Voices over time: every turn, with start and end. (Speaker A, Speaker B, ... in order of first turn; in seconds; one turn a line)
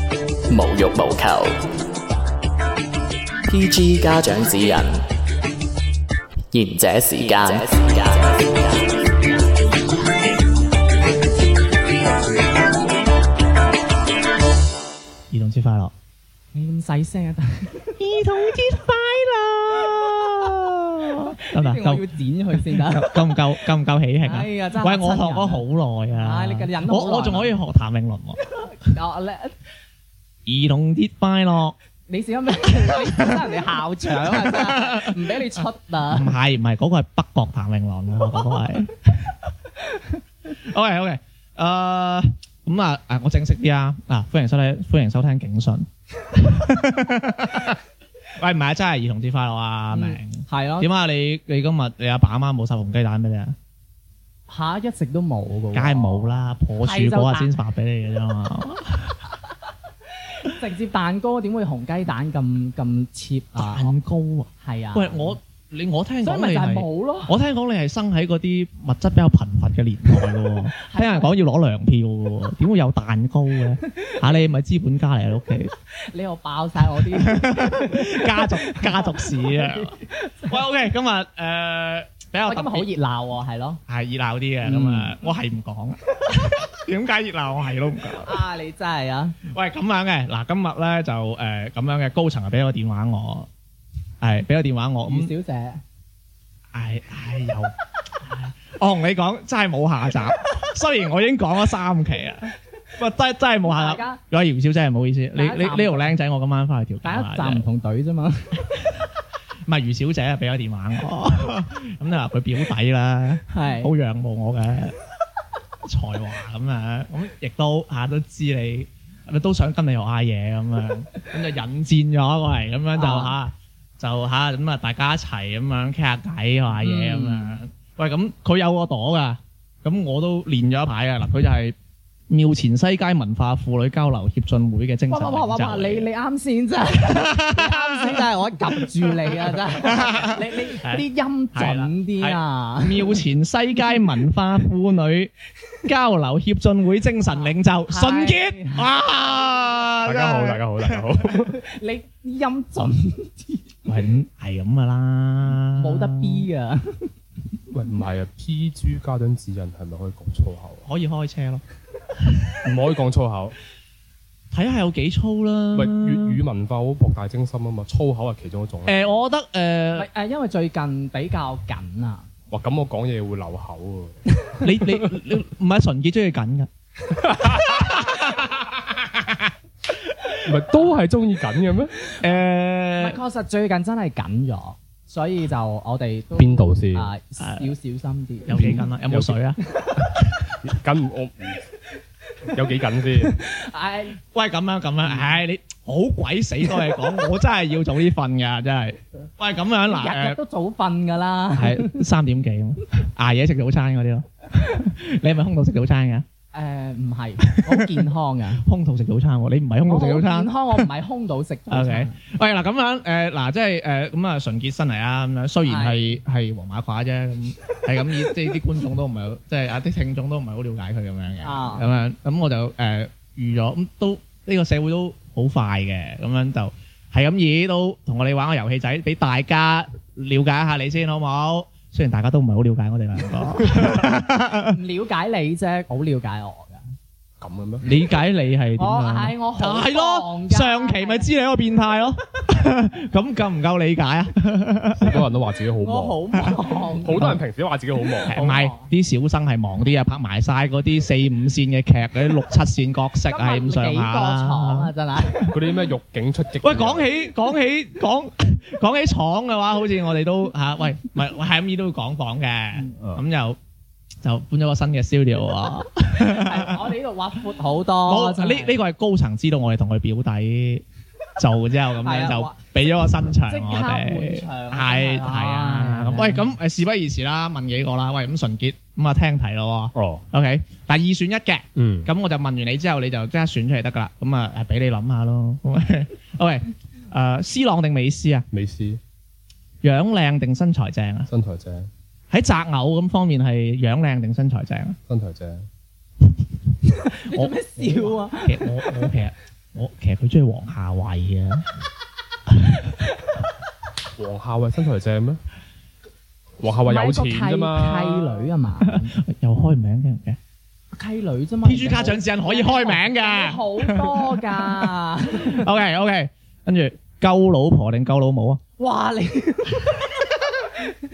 Speaker A: 0.5-1.6
Speaker A: 3.5-5.0
Speaker A: 6.5-8.9
Speaker B: 15.3-15.9
Speaker C: 16.5-18.0
Speaker B: 18.0-22.1
Speaker C: 19.9-20.3
Speaker C: 21.4-23.5
Speaker B: 22.6-28.4
Speaker C: 24.2-25.6
Speaker C: 26.1-27.6
Speaker C: 28.7-29.6
Speaker B: 30.5-31.8
Speaker C: 32.1-36.4
Speaker B: 33.0-33.4
Speaker B: 34.2-35.3
Speaker B: 36.1-39.4
Speaker B: 40.5-47.8
Speaker B: 48.4-53.5
Speaker C: 49.9-50.9
Speaker C: 54.5-57.5
Speaker B: 55.7-59.2
Speaker C: 60.4-64.0
Speaker B: 63.5-75.7
Speaker C: 64.6-65.4
Speaker C: 66.2-67.3
Speaker C: 70.8-71.3
Speaker C: 76.0-80.6
Speaker B: 77.1-82.9
Speaker C: 82.5-83.8
Speaker B: 83.9-88.4
Speaker C: 84.6-85.2
Speaker C: 88.2-89.4
Speaker B: 89.5-93.5
Speaker B: 94.2-95.3
Speaker C: 95.1-95.8
Speaker B: 96.7-107.7
Speaker C: 103.7-104.2
Speaker C: 105.4-106.1
Speaker C: 107.0-108.7
Speaker B: 109.7-115.0
Speaker C: 113.5-113.9
Speaker B: 115.8-131.8
Speaker C: 123.0-123.3
Speaker C: 126.8-127.6
Speaker B: 132.3-136.1
Speaker C: 135.1-143.2
Speaker B: 137.1-145.3
Speaker B: 145.8-151.2
Speaker C: 147.3-148.9
Speaker D: 150.0-151.6
Speaker C: 151.5-153.8
Speaker B: 153.9-156.5
Speaker C: 155.8-157.1
Speaker D: 157.7-160.8
Speaker B: 160.8-161.6
Speaker D: 162.7-163.6
Speaker B: 164.5-166.4
Speaker D: 165.7-169.2
Speaker B: 168.9-170.1
Speaker C: 170.0-172.3
Speaker D: 172.5-174.2
Speaker B: 174.6-176.7
Speaker D: 174.8-175.1
Speaker D: 177.2-177.8
Speaker B: 177.8-179.5
Speaker D: 180.4-181.9
Speaker B: 182.2-183.2
Speaker C: 183.0-188.8
Speaker D: 186.4-187.1
Speaker B: 187.4-187.7
Speaker B: 188.4-189.6
Speaker D: 188.5-189.4
Speaker D: 190.6-191.7
Speaker D: 192.5-193.4
Speaker C: 193.2-194.2
Speaker B: 194.3-200.4
Speaker C: 195.1-195.4
Speaker C: 199.9-202.0
Speaker B: 201.6-206.3
Speaker C: 206.5-208.6
Speaker B: 207.5-208.0
Speaker B: 208.6-210.9
Speaker C: 209.9-212.2
Speaker B: 211.7-234.8
Speaker C: 215.7-216.2
Speaker C: 221.4-221.9
Speaker C: 234.7-236.8
Speaker D: 237.4-237.9
Speaker B: 237.8-245.2
Speaker C: 238.8-241.3
Speaker D: 244.9-246.2
Speaker C: 245.8-247.3
Speaker B: 246.4-247.4
Speaker D: 247.0-248.4
Speaker B: 248.3-254.9
Speaker C: 248.3-248.9
Speaker C: 253.3-255.6
Speaker D: 255.5-257.1
Speaker B: 256.6-263.6
Speaker D: 263.0-263.2
Speaker B: 264.2-266.8
Speaker C: 266.2-268.8
Speaker B: 268.1-270.8
Speaker B: 271.4-288.4
Speaker C: 272.0-272.6
Speaker C: 273.5-276.5
Speaker D: 279.9-280.2
Speaker D: 281.8-282.1
Speaker D: 288.5-289.0
Speaker B: 289.8-291.3
Speaker D: 291.3-291.9
Speaker B: 292.3-295.0
Speaker D: 295.1-295.7
Speaker C: 297.0-298.9
Speaker B: 297.3-301.6
Speaker D: 304.2-305.4
Speaker D: 306.6-308.5
Speaker C: 306.9-309.1
Speaker B: 308.8-310.4
Speaker C: 310.9-315.7
Speaker B: 311.6-318.6
Speaker C: 318.8-320.2